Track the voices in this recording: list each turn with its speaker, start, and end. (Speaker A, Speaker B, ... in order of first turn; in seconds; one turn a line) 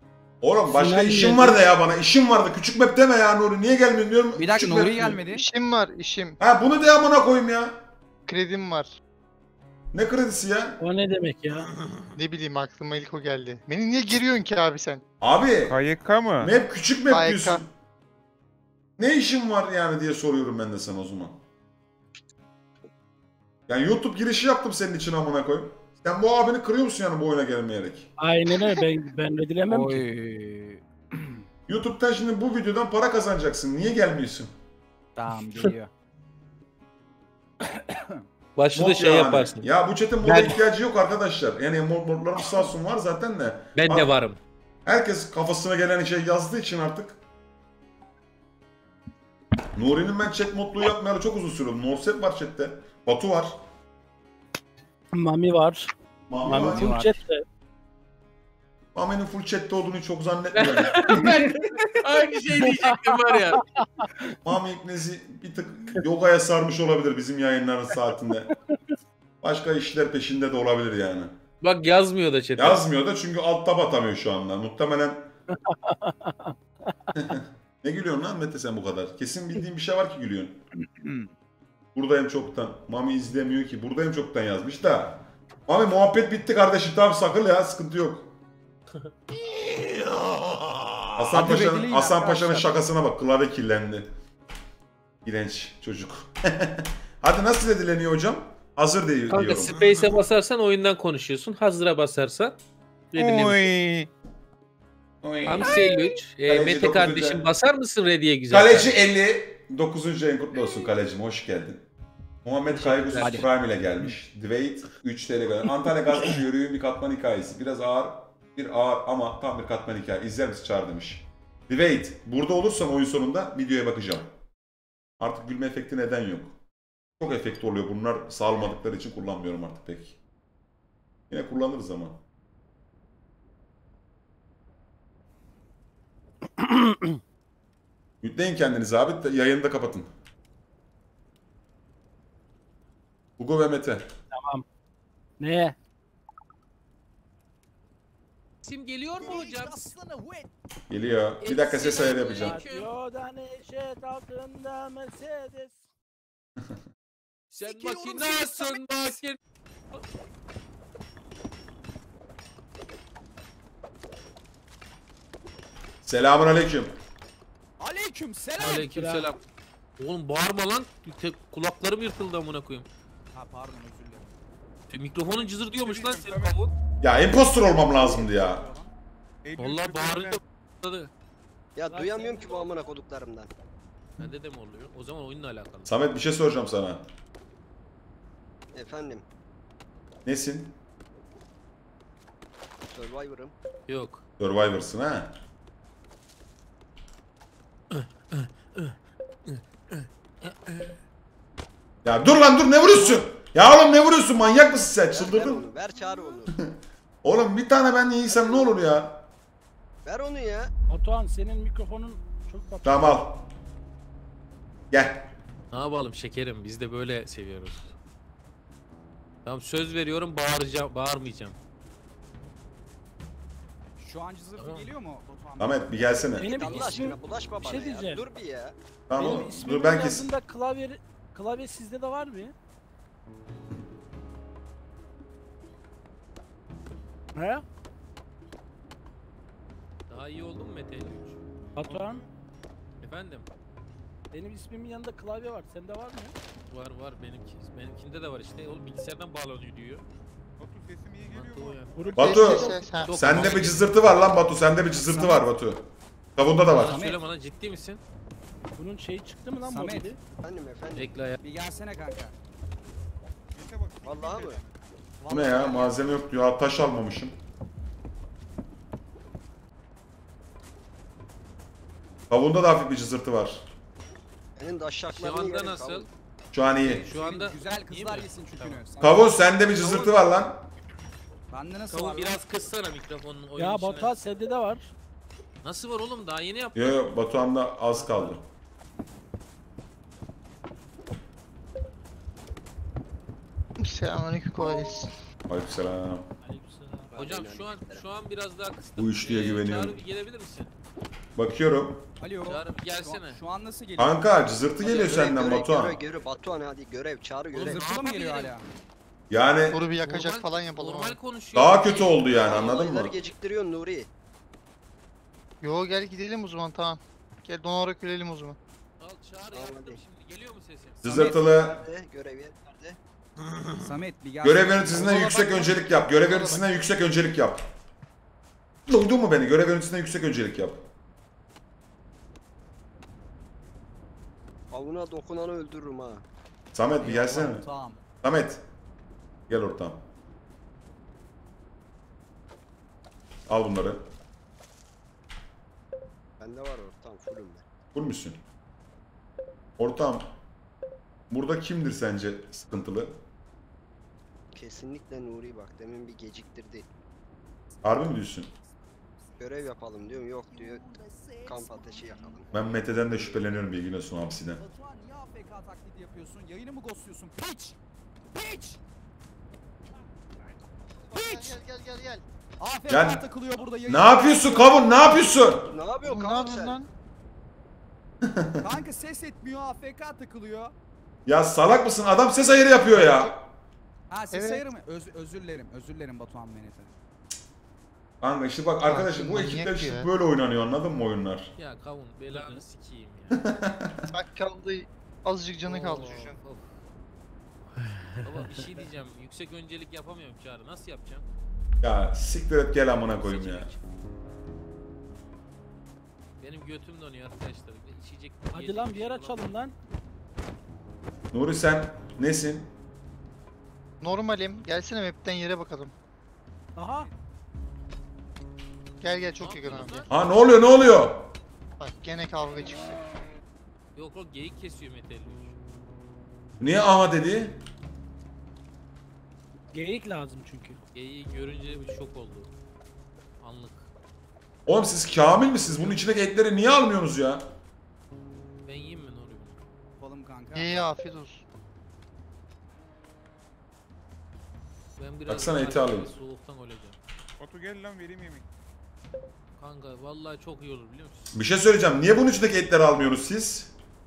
Speaker A: 0.4-5.2
Speaker B: 0.7-1.6
Speaker C: 4.3-5.4
Speaker D: 5.2-6.4
Speaker A: 6.4-7.8
Speaker D: 8.2-8.9
Speaker A: 9.9-10.8
Speaker B: 10.8-11.7
Speaker D: 12.1-15.0
Speaker A: 15.2-15.8
Speaker E: 15.7-16.5
Speaker A: 16.4-17.7
Speaker D: 17.1-17.6
Speaker A: 19.0-21.4
Speaker A: 23.7-28.1
Speaker B: 28.2-30.0
Speaker C: 29.7-31.4
Speaker A: 31.7-34.5
Speaker C: 35.1-35.9
Speaker C: 37.8-38.2
Speaker F: 38.5-39.7
Speaker A: 38.7-44.1
Speaker F: 43.8-44.4
Speaker A: 44.9-47.2
Speaker A: 49.7-53.6
Speaker B: 55.1-55.9
Speaker A: 56.3-56.9
Speaker B: 56.4-57.4
Speaker C: 56.5-57.1
Speaker A: 58.9-61.0
Speaker F: 60.5-63.6
Speaker B: 62.6-64.0
Speaker A: 64.4-68.5
Speaker A: 69.4-71.3
Speaker F: 71.6-72.8
Speaker A: 72.6-75.3
Speaker B: 75.7-76.5
Speaker A: 77.1-80.6
Speaker C: 80.8-81.3
Speaker A: 81.9-88.3
Speaker A: 91.2-94.1
Speaker C: 91.3-92.7
Speaker A: 95.2-99.7
Speaker F: 99.3-102.5
Speaker E: 99.7-100.2
Speaker F: 103.1-103.7
Speaker E: 103.2-104.1
Speaker A: 105.2-105.8
Speaker F: 105.4-108.9
Speaker A: 106.5-107.5
Speaker A: 108.5-111.8
Speaker A: 112.4-124.3
Speaker C: 112.7-114.2
Speaker A: 125.2-126.5
Speaker A: 127.2-130.2
Speaker A: 131.3-132.2
Speaker B: 136.6-137.2
Speaker A: 138.2-140.1
Speaker A: 143.4-144.1
Speaker B: 144.3-144.6
Speaker B: 145.4-145.7
Speaker F: 148.6-149.9
Speaker C: 149.2-150.5
Speaker A: 150.9-152.6
Speaker F: 151.4-152.9
Speaker B: 152.4-155.8
Speaker F: 157.5-159.4
Speaker C: 157.6-159.0
Speaker A: 166.0-166.9
Speaker C: 167.8-168.9
Speaker F: 168.6-169.4
Speaker B: 168.8-169.3
Speaker F: 170.0-172.8
Speaker C: 173.3-174.3
Speaker F: 174.9-176.7
Speaker E: 175.7-176.6
Speaker A: 177.0-178.6
Speaker C: 177.7-178.9
Speaker E: 179.4-180.4
Speaker F: 179.6-181.1
Speaker G: 181.8-183.5
Speaker B: 181.9-182.7
Speaker F: 184.2-186.0
Speaker A: 185.8-187.0
Speaker G: 188.7-189.2
Speaker A: 190.2-190.8
Speaker G: 192.9-193.5
Speaker F: 193.9-194.2
Speaker A: 194.4-195.3
Speaker F: 197.9-198.9
Speaker F: 199.5-200.9
Speaker A: 202.0-205.6
Speaker G: 205.1-206.6
Speaker A: 206.5-209.3
Speaker G: 208.3-208.7
Speaker G: 210.1-210.7
Speaker B: 210.9-213.2
Speaker A: 212.8-213.4
Speaker A: 214.9-215.3
Speaker F: 215.7-217.9
Speaker F: 219.4-221.6
Speaker C: 224.0-226.3
Speaker F: 224.6-224.8
Speaker A: 225.6-226.5
Speaker B: 226.4-228.2
Speaker G: 226.4-228.7
Speaker A: 229.1-230.3
Speaker B: 229.1-232.5
Speaker C: 229.2-229.4
Speaker B: 237.3-237.6
Speaker F: 240.1-241.4
Speaker B: 241.8-242.2
Speaker E: 241.8-242.3
Speaker F: 243.0-243.4
Speaker B: 244.3-246.3
Speaker F: 246.7-250.0
Speaker E: 250.6-252.5
Speaker F: 251.3-252.1
Speaker B: 251.9-252.9
Speaker D: 252.2-253.1
Speaker A: 252.2-255.8
Speaker F: 253.0-253.9
Speaker C: 255.0-255.4
Speaker A: 256.4-257.0
Speaker F: 256.7-258.0
Speaker C: 256.7-257.2
Speaker B: 258.8-260.2
Speaker C: 259.6-260.1
Speaker G: 260.4-261.1
Speaker F: 260.9-261.4
Speaker C: 261.4-262.3
Speaker E: 263.5-264.8
Speaker G: 264.0-264.6
Speaker C: 265.2-266.0
Speaker A: 265.3-267.4
Speaker A: 272.3-273.6
Speaker G: 274.6-276.1
Speaker F: 275.1-276.1
Speaker A: 276.5-277.0
Speaker C: 276.8-280.2
Speaker F: 277.1-278.8
Speaker A: 279.0-280.7
Speaker C: 281.5-282.4
Speaker F: 281.9-284.1
Speaker B: 283.6-284.9
Speaker F: 285.6-287.1
Speaker A: 286.7-288.4
Speaker F: 287.9-288.4
Speaker D: 293.8-295.1
Speaker A: 295.5-296.3
Speaker B: 296.4-297.1
Speaker G: 297.1-298.0
Speaker F: 297.1-300.7
Speaker A: 299.0-300.0
Speaker A: 301.4-302.0
Speaker C: 302.2-304.2
Speaker F: 302.4-303.4
Speaker A: 304.0-306.0
Speaker G: 304.8-307.8
Speaker F: 307.5-308.5
Speaker C: 307.6-308.6
Speaker A: 309.3-309.8
Speaker D: 309.7-311.2
Speaker F: 310.0-312.4
Speaker A: 311.5-313.1
Speaker G: 312.3-314.1
Speaker D: 315.6-318.6
Speaker F: 319.0-321.3
Speaker G: 319.5-320.0
Speaker A: 321.0-321.8
Speaker C: 321.0-321.6
Speaker G: 321.3-323.0
Speaker C: 323.7-325.9
Speaker A: 324.4-327.6
Speaker D: 326.1-326.9
Speaker A: 328.9-330.8
Speaker G: 334.7-336.2
Speaker A: 336.7-337.6
Speaker C: 337.0-338.0
Speaker A: 338.2-338.6
Speaker A: 339.5-340.0
Speaker A: 343.5-344.1
Speaker G: 346.4-347.6
Speaker A: 347.9-348.4
Speaker A: 349.8-350.3
Speaker A: 351.3-353.2
Speaker G: 354.5-356.9
Speaker A: 357.8-358.5
Speaker G: 359.4-360.9
Speaker C: 360.8-362.4
Speaker G: 361.4-362.5
Speaker A: 362.5-364.6
Speaker C: 364.6-367.8
Speaker C: 368.3-368.8
Speaker D: 371.1-372.2
Speaker C: 371.1-371.6
Speaker C: 372.6-374.9
Speaker A: 372.9-373.2
Speaker A: 373.9-375.7
Speaker G: 375.6-376.8
Speaker D: 376.0-376.9
Speaker A: 378.2-378.6
Speaker C: 378.6-380.7
Speaker A: 381.2-383.3
Speaker D: 382.9-383.3
Speaker C: 384.1-386.9
Speaker D: 384.3-384.6
Speaker A: 388.2-391.5
Speaker D: 388.8-390.1
Speaker F: 391.6-393.4
Speaker B: 392.3-392.6
Speaker A: 393.3-394.1
Speaker D: 394.1-396.4
Speaker F: 395.6-396.7
Speaker F: 397.8-401.2
Speaker B: 398.2-398.7
Speaker A: 401.8-403.7
Speaker F: 403.2-403.8
Speaker F: 406.4-409.5
Speaker B: 408.5-409.7
Speaker A: 411.3-412.7
Speaker D: 414.0-415.9
Speaker B: 416.8-417.1
Speaker D: 419.0-420.1
Speaker F: 419.4-420.1
Speaker A: 420.1-421.3
Speaker D: 421.8-422.9
Speaker F: 423.9-425.5
Speaker A: 426.6-427.6
Speaker B: 429.7-430.8
Speaker F: 430.9-432.5
Speaker F: 433.4-433.9
Speaker A: 434.6-437.5
Speaker F: 435.6-436.0
Speaker F: 438.6-439.6
Speaker C: 440.0-440.9
Speaker D: 440.5-441.4
Speaker F: 445.0-447.0
Speaker A: 445.3-446.1
Speaker E: 447.4-448.5
Speaker F: 449.6-451.3
Speaker A: 451.3-453.7